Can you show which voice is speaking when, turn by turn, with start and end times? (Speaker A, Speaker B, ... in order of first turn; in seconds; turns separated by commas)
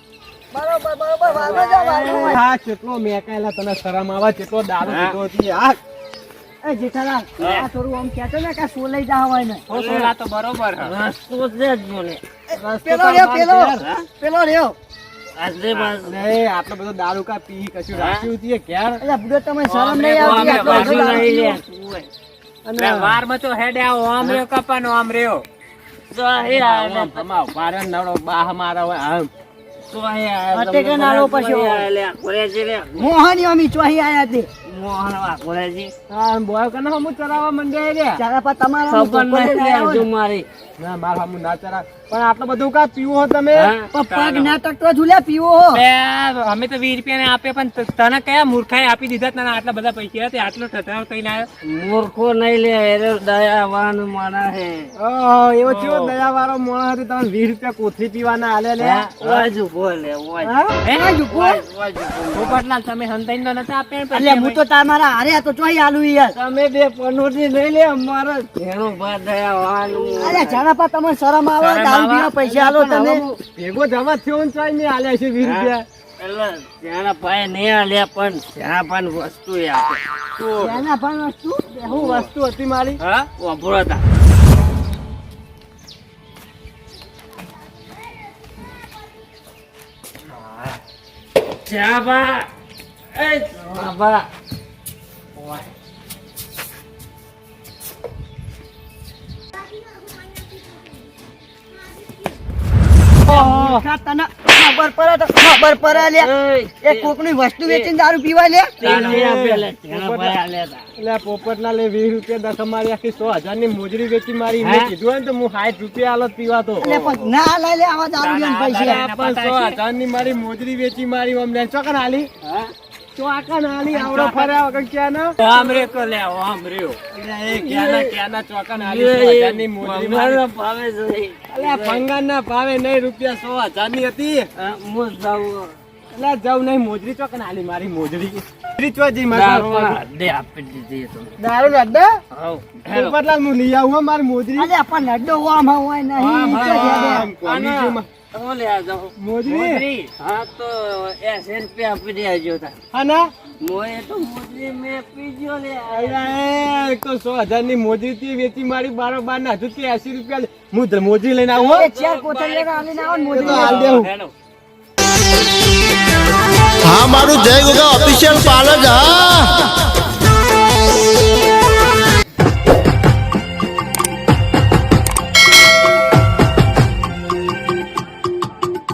Speaker A: 0.5-2.4, Speaker B: 1.2-2.3, Speaker C: 1.6-5.8, Speaker B: 4.8-5.2, Speaker A: 6.6-9.6, Speaker D: 7.4-7.7, Speaker D: 9.7-10.9, Speaker B: 9.7-10.1, Speaker B: 10.8-12.2, Speaker A: 12.5-14.8, Speaker C: 12.5-13.8, Speaker B: 13.8-14.0, Speaker B: 15.3-16.1, Speaker C: 16.0-19.0, Speaker B: 17.9-18.2, Speaker A: 19.0-21.5, Speaker D: 19.6-21.4, Speaker B: 20.1-22.1, Speaker C: 22.6-23.2, Speaker D: 22.7-25.4, Speaker B: 26.1-27.2, Speaker C: 26.4-29.3, Speaker B: 29.9-33.1, Speaker A: 30.5-31.9, Speaker A: 33.0-34.5, Speaker B: 34.6-35.9, Speaker C: 36.1-38.2, Speaker A: 38.1-40.0, Speaker B: 38.9-40.5, Speaker C: 40.8-43.7, Speaker B: 43.5-43.9, Speaker A: 43.9-45.8, Speaker D: 44.1-44.6, Speaker D: 45.7-51.5, Speaker B: 51.6-54.9, Speaker C: 55.0-59.5, Speaker D: 55.6-56.2, Speaker B: 58.8-60.5, Speaker A: 60.4-61.6, Speaker D: 60.8-61.3, Speaker B: 61.3-62.6, Speaker D: 62.3-64.6, Speaker A: 64.1-66.3, Speaker B: 66.3-70.6, Speaker A: 70.2-73.2, Speaker D: 71.6-72.3, Speaker C: 72.4-75.8, Speaker B: 75.4-80.0, Speaker C: 80.4-80.8, Speaker A: 80.6-82.3, Speaker C: 81.8-83.0, Speaker B: 83.4-84.0, Speaker B: 91.7-92.5, Speaker B: 93.1-94.3, Speaker A: 103.3-106.3, Speaker C: 103.3-103.8, Speaker B: 105.9-107.9, Speaker A: 106.8-109.0, Speaker B: 108.8-110.8, Speaker D: 108.8-109.3, Speaker C: 108.8-110.4, Speaker C: 111.0-117.3, Speaker B: 114.6-114.9, Speaker A: 116.8-119.0, Speaker D: 118.2-119.8, Speaker C: 118.7-122.3, Speaker B: 122.4-122.7, Speaker C: 123.1-125.7, Speaker D: 123.9-124.6, Speaker D: 125.4-127.0, Speaker C: 127.0-130.4, Speaker B: 127.5-128.2, Speaker B: 128.7-132.0, Speaker C: 131.5-134.5, Speaker B: 134.6-135.7, Speaker C: 136.1-140.0, Speaker B: 139.3-141.4, Speaker C: 141.4-142.2, Speaker B: 142.3-143.2, Speaker C: 142.9-144.7, Speaker A: 144.5-147.3, Speaker B: 146.2-147.3, Speaker C: 146.5-148.1, Speaker D: 146.8-147.9, Speaker B: 148.3-149.1, Speaker C: 149.2-149.8, Speaker D: 149.4-150.1, Speaker B: 150.2-152.8, Speaker C: 152.9-153.3, Speaker B: 153.6-156.3, Speaker C: 155.9-161.9, Speaker A: 161.6-164.1, Speaker B: 161.8-162.2, Speaker D: 161.9-164.3, Speaker C: 163.3-164.1, Speaker E: 166.9-169.4, Speaker D: 168.6-169.0